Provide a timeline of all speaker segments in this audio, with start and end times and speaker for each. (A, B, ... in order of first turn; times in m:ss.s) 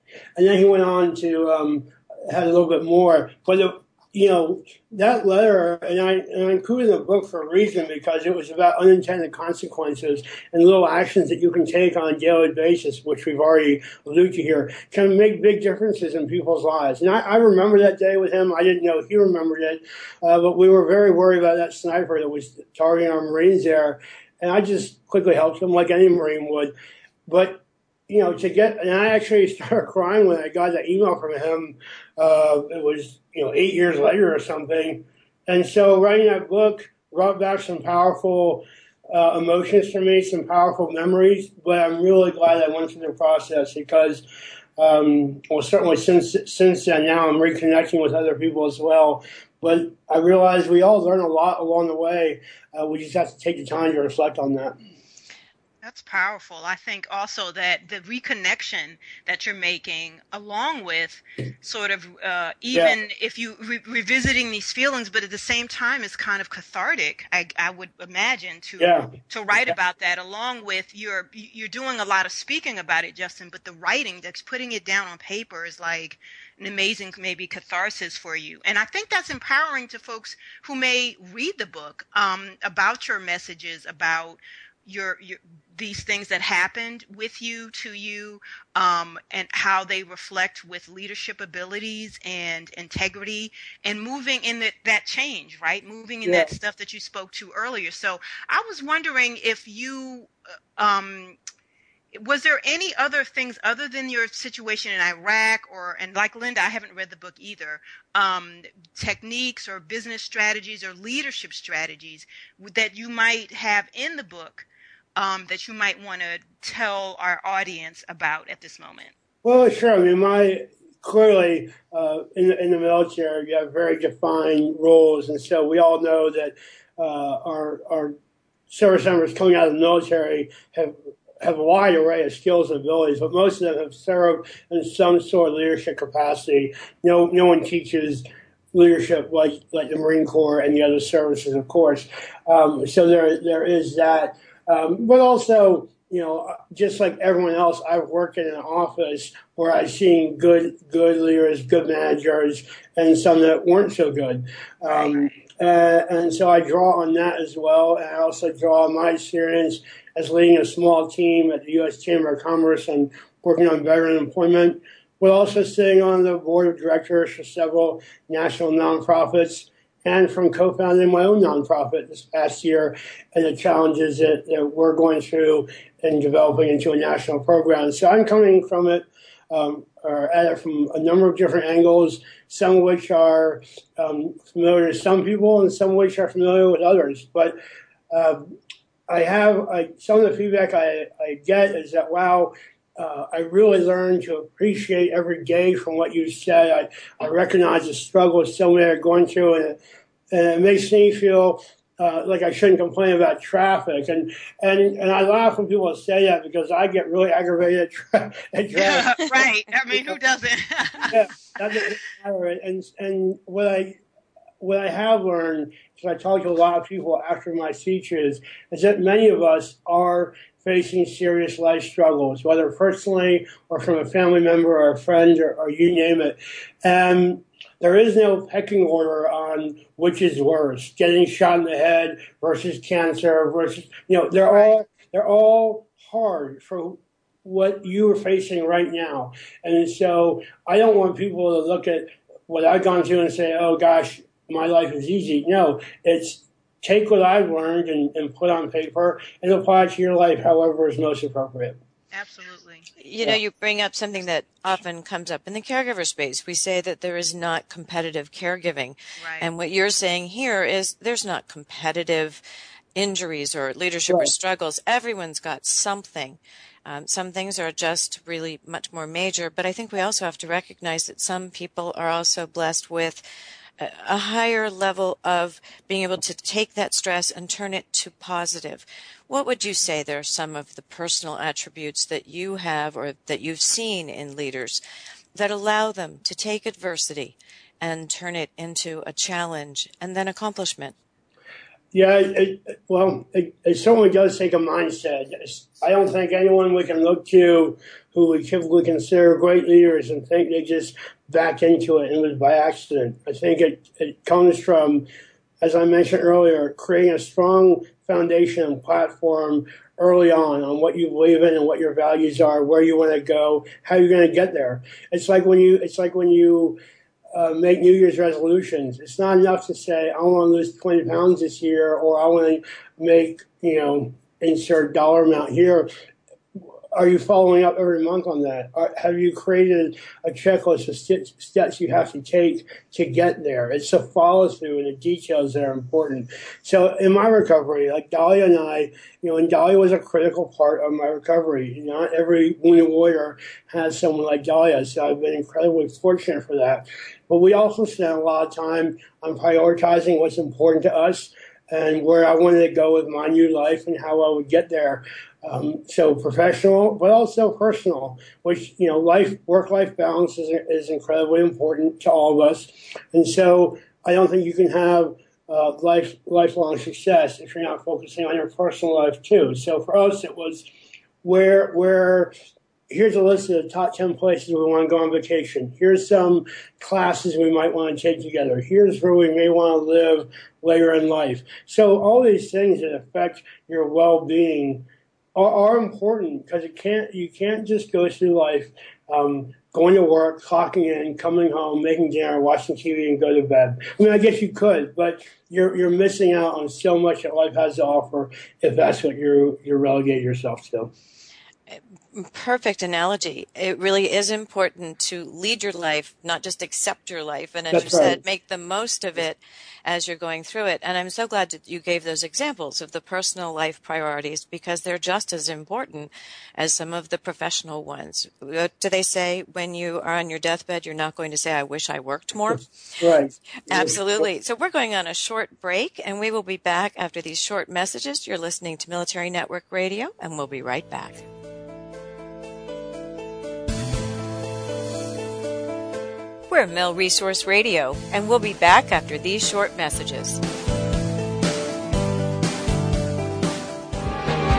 0:00.4-0:26.7 A
0:27.3-0:44.2 A
0:44.8-0:54.8 A
0:55.8-1:41.4 B
1:08.8-1:09.1 A
1:36.2-1:36.5 A
1:42.1-1:59.1 B
1:59.4-2:08.2 A
2:08.7-3:07.6 A
2:34.8-2:35.3 B
3:08.1-3:08.5 A
3:09.1-3:19.8 A
3:20.3-3:29.2 A
3:28.8-3:31.2 B
3:29.9-3:30.2 A
3:31.1-3:34.0 A
3:34.6-4:11.8 A
3:54.5-3:54.8 B
4:12.1-4:12.9 B
4:13.0-4:22.4 C
4:19.2-4:19.5 B
4:23.0-4:33.2 C
4:33.8-4:44.8 C
4:45.4-4:51.0 C
4:51.9-5:05.1 A
5:05.6-5:16.8 A
5:17.3-5:25.9 A
5:26.9-6:10.6 A
6:11.2-6:12.3 A
6:12.9-6:40.9 A
6:41.7-7:02.7 C
6:47.7-6:48.2 A
7:03.0-7:04.3 A
7:03.7-7:11.2 C
7:16.5-7:20.4 C